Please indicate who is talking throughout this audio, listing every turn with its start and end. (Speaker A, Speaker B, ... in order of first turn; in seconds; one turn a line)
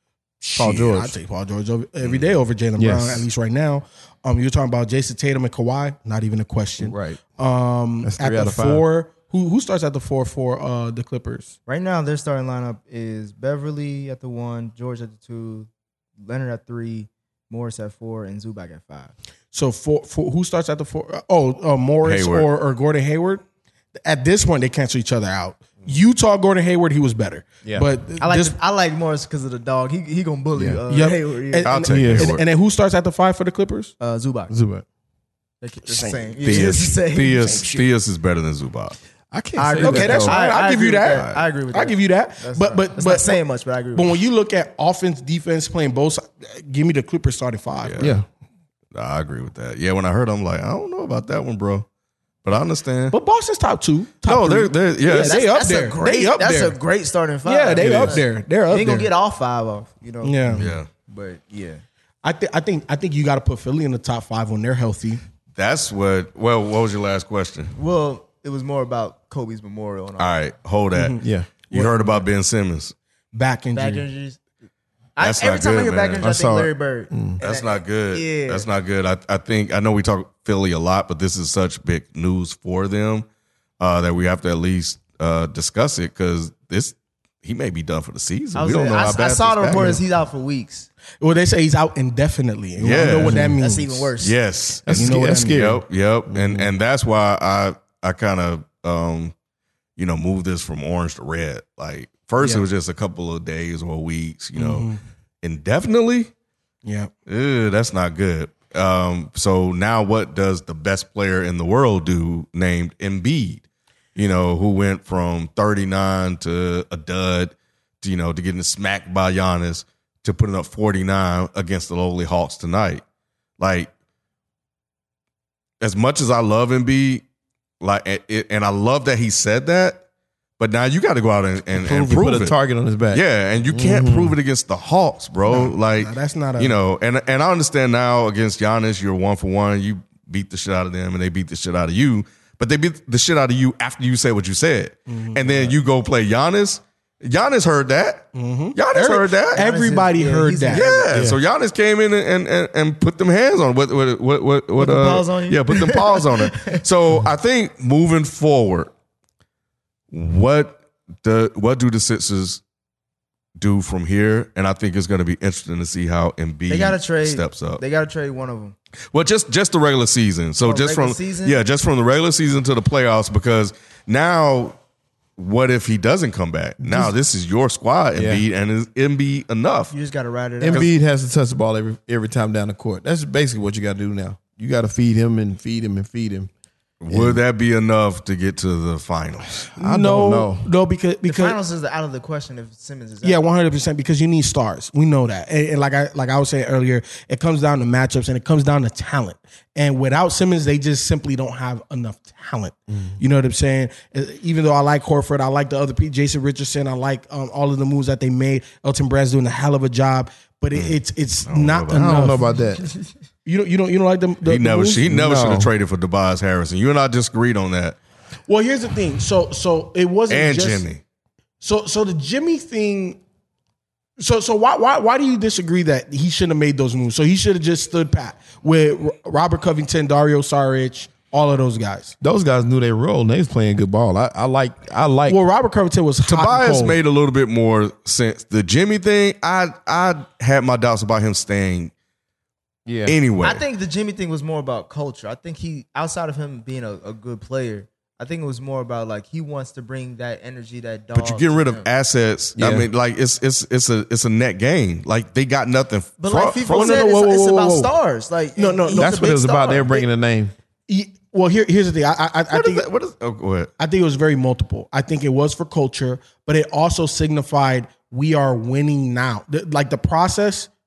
Speaker A: 0.4-11.6
Speaker B: 0.5-1.2
Speaker B: 2.8-3.3
Speaker B: 6.8-7.2
Speaker B: 8.0-8.9
Speaker C: 11.7-15.7
Speaker C: 16.2-19.1
Speaker A: 19.5-23.4
Speaker D: 22.0-22.5
Speaker A: 24.0-28.6
Speaker C: 28.2-31.7
Speaker B: 30.6-30.8
Speaker A: 30.9-33.9
Speaker D: 31.6-32.4
Speaker B: 31.9-32.3
Speaker C: 34.0-34.5
Speaker B: 34.5-34.9
Speaker C: 35.6-37.7
Speaker A: 35.9-36.8
Speaker D: 36.4-39.0
Speaker A: 37.3-37.9
Speaker B: 39.3-40.4
Speaker C: 39.6-44.2
Speaker A: 39.8-43.4
Speaker D: 41.1-41.4
Speaker A: 43.9-48.2
Speaker D: 47.8-48.1
Speaker B: 48.0-48.3
Speaker D: 48.9-51.9
Speaker D: 52.4-53.1
Speaker A: 53.1-56.8
Speaker D: 54.2-55.4
Speaker C: 55.1-60.5
Speaker A: 57.5-59.1
Speaker D: 57.8-58.1
Speaker B: 57.8-58.2
Speaker A: 60.2-60.7
Speaker D: 60.5-60.9
Speaker C: 61.1-61.8
Speaker A: 62.2-65.2
Speaker D: 65.5-67.8
Speaker C: 67.8-70.4
Speaker D: 70.2-71.2
Speaker A: 70.9-72.2
Speaker B: 71.2-71.5
Speaker D: 71.7-73.0
Speaker A: 73.3-74.0
Speaker C: 73.7-74.4
Speaker C: 75.2-78.7
Speaker D: 75.2-76.3
Speaker B: 76.2-77.4
Speaker D: 77.4-83.3
Speaker D: 83.8-90.0
Speaker C: 88.5-90.9
Speaker A: 91.2-94.1
Speaker D: 92.8-93.5
Speaker B: 93.2-93.6
Speaker C: 93.6-94.4
Speaker D: 94.2-99.3
Speaker B: 94.8-96.7
Speaker A: 94.9-95.6
Speaker D: 100.0-104.9
Speaker A: 102.4-102.7
Speaker A: 104.6-105.0
Speaker D: 105.4-106.3
Speaker A: 106.8-107.1
Speaker D: 107.3-113.7
Speaker D: 114.2-123.0
Speaker D: 123.6-123.9
Speaker D: 125.8-127.2
Speaker D: 127.8-130.0
Speaker D: 130.6-132.6
Speaker B: 131.8-134.4
Speaker D: 133.1-149.7
Speaker A: 135.5-136.8
Speaker A: 145.1-145.7
Speaker A: 148.3-150.9
Speaker C: 149.5-151.1
Speaker D: 150.7-158.9
Speaker B: 151.1-151.4
Speaker C: 154.8-156.8
Speaker D: 160.1-162.6
Speaker D: 163.6-167.8
Speaker C: 166.7-168.8
Speaker D: 169.1-174.8
Speaker C: 170.6-171.6
Speaker D: 175.4-179.9
Speaker B: 176.8-177.1
Speaker B: 178.2-178.4
Speaker C: 179.9-180.9
Speaker B: 180.6-186.5
Speaker D: 187.0-189.7
Speaker B: 187.1-187.4
Speaker B: 189.7-190.7
Speaker A: 189.8-191.6
Speaker C: 191.2-193.4
Speaker A: 193.2-212.5
Speaker B: 202.9-203.2
Speaker D: 210.7-212.3
Speaker B: 211.9-212.9
Speaker A: 213.4-215.1
Speaker D: 214.4-218.0
Speaker B: 215.1-215.7
Speaker A: 218.5-220.9
Speaker D: 220.3-221.0
Speaker A: 221.6-223.2
Speaker A: 224.2-232.2
Speaker B: 232.2-235.4
Speaker A: 235.3-237.0
Speaker D: 236.2-241.9
Speaker B: 242.9-243.2
Speaker D: 243.1-243.6
Speaker C: 243.4-251.9
Speaker D: 251.2-257.0
Speaker B: 252.6-252.9
Speaker C: 256.2-260.1
Speaker A: 256.6-257.9
Speaker A: 258.6-259.9
Speaker B: 258.9-260.5
Speaker A: 260.9-262.9
Speaker D: 262.5-263.7
Speaker A: 263.8-270.7